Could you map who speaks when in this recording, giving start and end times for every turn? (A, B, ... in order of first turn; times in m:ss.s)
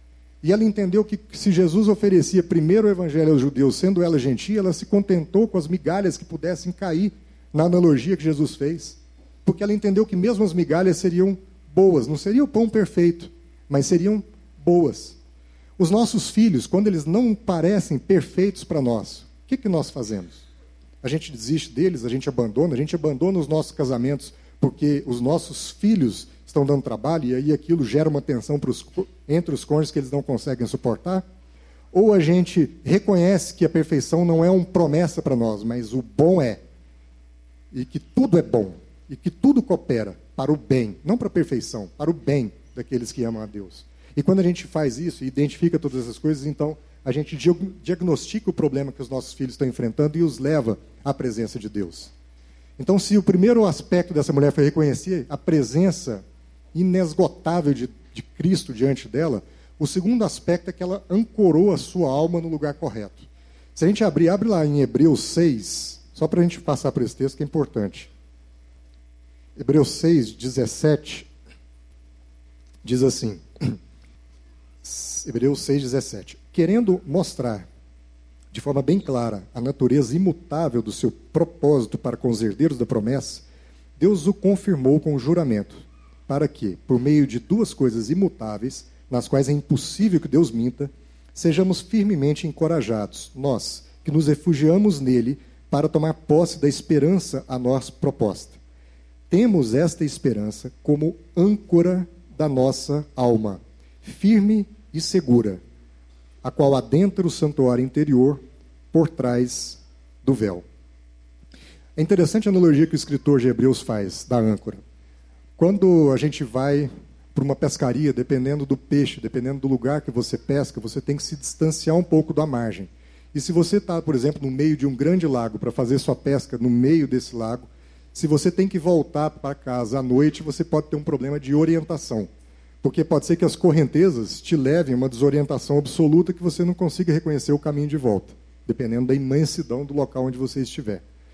0:00.4-0:15.2 A
0:15.8-0:20.4 A
0:21.0-0:31.2 A
0:31.9-0:36.6 A
0:37.7-0:52.1 A
0:52.8-1:08.1 A
1:09.6-1:11.3 A
1:12.8-1:13.8 A
1:14.8-1:17.7 A
1:18.5-1:23.4 A
1:24.0-1:38.6 A
1:39.3-1:45.6 A
1:46.4-1:48.4 A
1:48.9-1:50.6 A
1:52.0-1:54.8 A
1:55.6-2:12.3 A
2:12.8-2:21.0 A